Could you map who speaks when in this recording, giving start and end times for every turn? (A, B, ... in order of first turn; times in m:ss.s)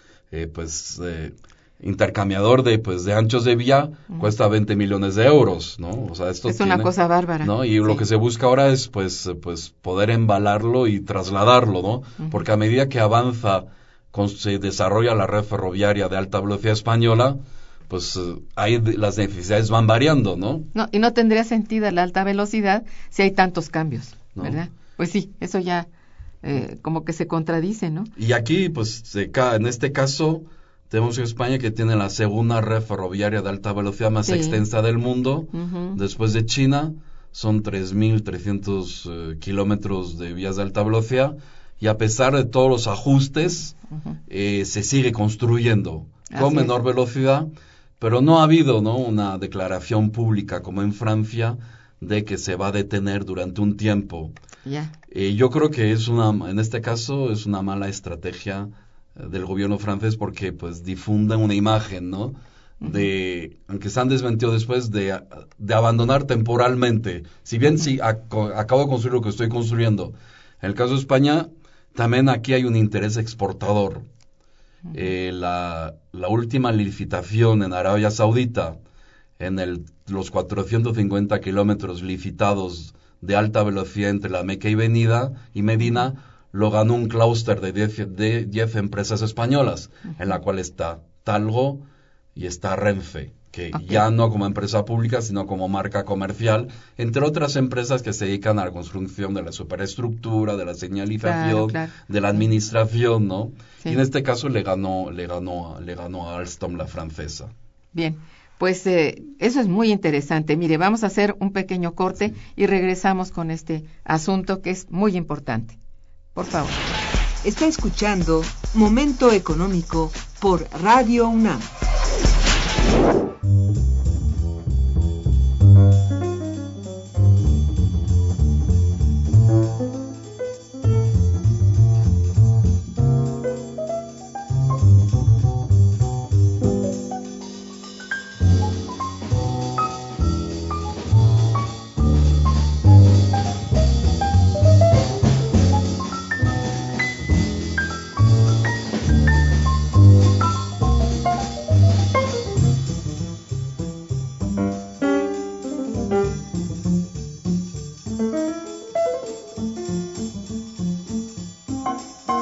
0:00.3-0:20.7 A
0:06.5-0:08.0 B
0:20.7-0:25.9 B
0:26.4-0:28.1 B
0:28.2-0:43.8 A
0:34.2-0:34.6 B
0:35.5-0:36.0 B
0:44.3-0:47.5 A
0:46.3-0:46.7 B
0:48.0-0:54.3 A
0:54.6-0:54.9 B
0:55.1-1:14.0 A
1:02.8-1:03.1 B
1:14.9-1:18.8 A
1:19.4-1:31.8 A
1:32.3-1:47.5 A
1:33.7-1:34.0 B
1:41.2-1:41.9 B
1:47.9-1:55.8 B
1:56.3-1:56.8 B
1:57.4-2:01.7 C